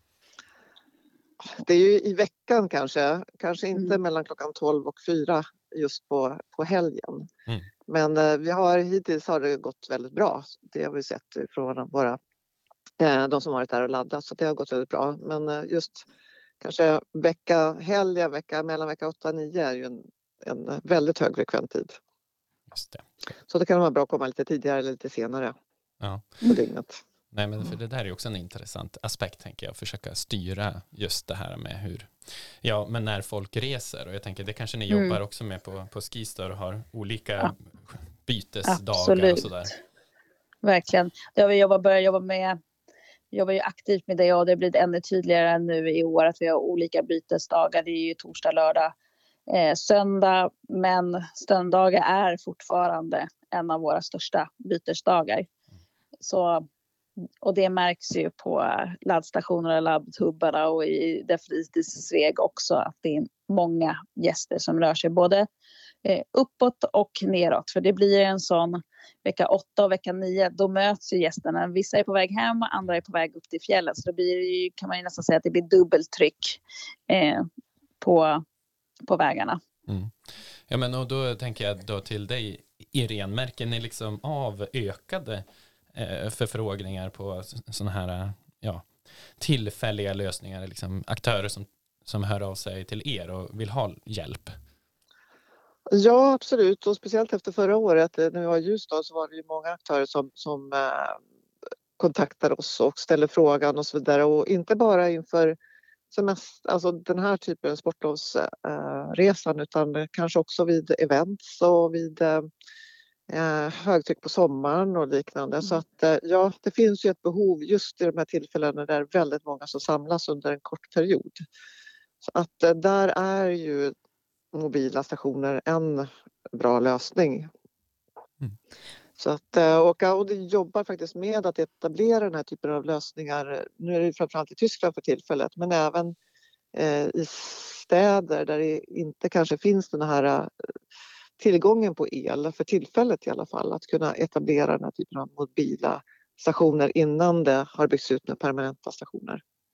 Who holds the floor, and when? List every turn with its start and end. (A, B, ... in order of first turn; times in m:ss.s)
0:01.4-0:07.3 A
0:07.9-0:12.2 A
0:13.0-0:16.0 A
0:16.6-0:22.0 A
0:22.7-0:23.0 B
0:23.5-0:25.6 A
0:26.0-0:26.4 B
0:26.4-0:27.0 A
0:27.3-0:39.7 B
0:34.9-0:35.2 C
0:38.6-0:39.8 C
0:40.6-0:42.6 C
0:43.3-0:48.9 C
0:49.5-0:55.5 C
0:56.2-0:56.6 C
0:57.4-1:05.5 C
1:06.0-1:17.5 C
1:18.0-1:18.4 C
1:19.1-1:19.6 C
1:19.9-1:20.1 B
1:20.7-1:34.6 B
1:35.9-1:41.2 A
1:42.0-1:45.6 A
1:46.1-1:52.5 A
1:53.3-2:01.4 A
2:02.2-2:03.9 A
2:04.5-2:07.5 A
2:09.2-2:16.2 A
2:16.7-2:20.5 A
2:21.4-2:29.4 A